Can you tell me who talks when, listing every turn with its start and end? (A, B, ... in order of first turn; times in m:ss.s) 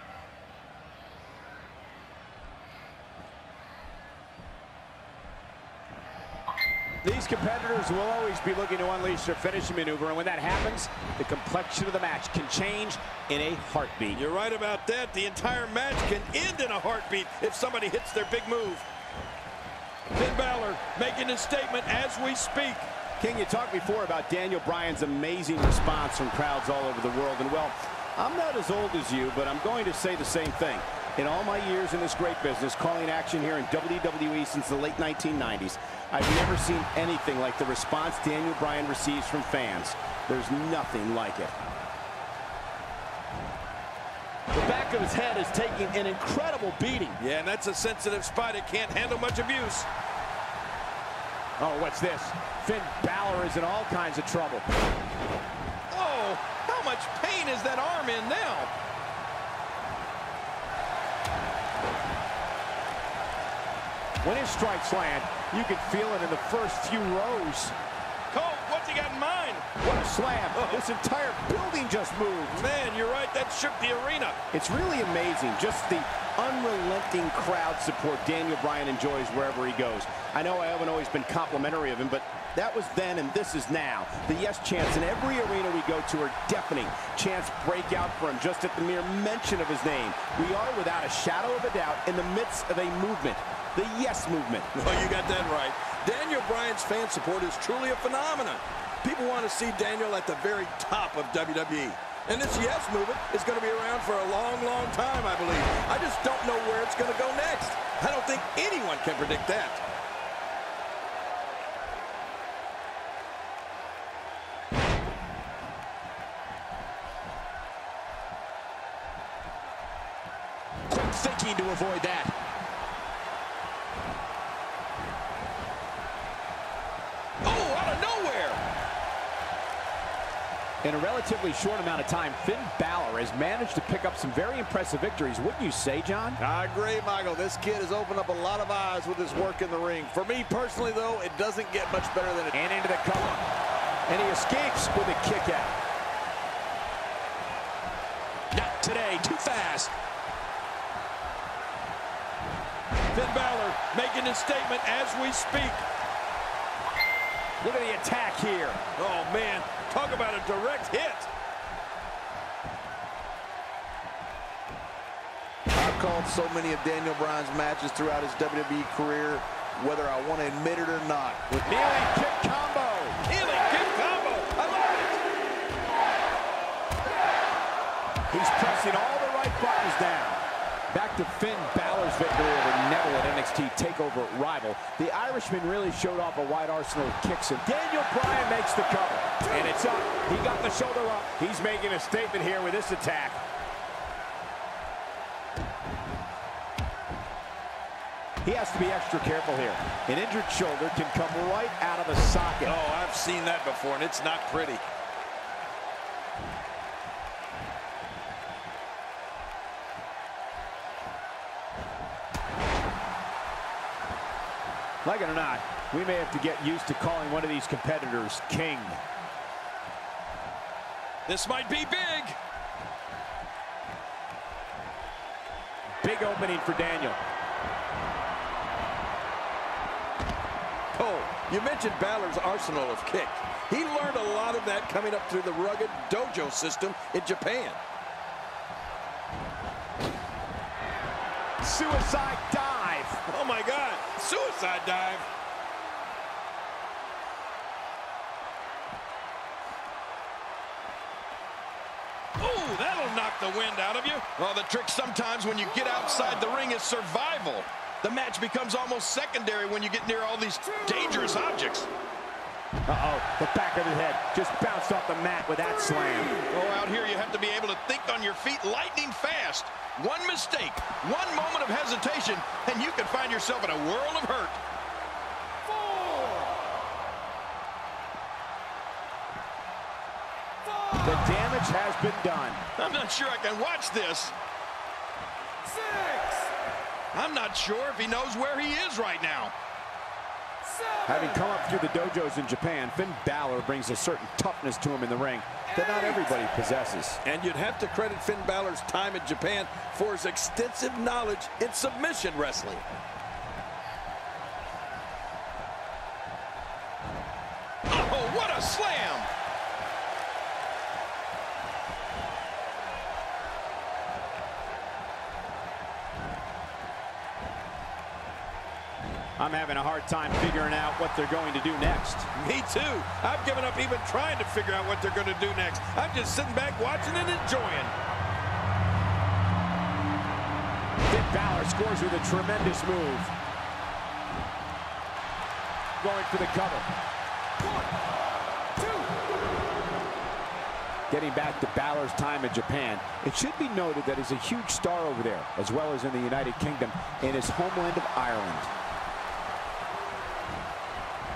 0:07.0-0:14.2 A
0:14.1-0:18.9 B
0:20.1-0:22.9 B
0:23.2-0:41.6 A
0:44.5-0:47.2 A
0:47.2-0:49.9 B
0:51.6-0:54.7 A
0:55.9-0:58.7 B
1:04.2-1:07.8 A
1:08.3-1:09.8 B
1:09.8-1:12.7 A
1:10.5-1:10.8 B
1:12.5-1:14.4 B
1:14.5-1:34.7 A
1:34.7-1:49.8 B
2:00.9-2:02.3 A
2:07.4-2:08.6 B
2:10.8-2:16.4 A
2:16.4-2:22.5 C
2:22.5-2:23.4 A
2:24.1-2:25.8 A
2:28.5-2:29.9 A
2:33.1-2:35.9 B
2:37.6-2:38.8 A
2:39.0-2:41.3 B
2:45.7-2:51.7 C
2:51.6-2:53.2 A
2:53.2-2:55.2 B
2:58.3-3:13.4 A
3:18.4-3:22.8 A
3:22.6-3:24.9 B
3:35.0-3:39.0 A
3:41.3-3:42.4 B
3:46.0-3:47.2 A
3:51.0-3:57.8 B
4:01.6-4:03.2 A
4:03.3-4:05.3 B
4:12.4-4:21.9 B
4:22.9-4:26.4 A
4:26.5-4:34.6 B
4:40.9-4:42.6 A
4:42.8-4:44.4 B
4:47.1-4:49.5 B
4:51.0-4:57.2 A
4:57.2-5:02.8 B
5:07.9-5:09.3 B
5:19.4-5:22.3 A
5:22.3-5:28.0 B
5:31.1-5:33.3 A
5:36.0-5:36.9 A
5:41.1-5:48.7 A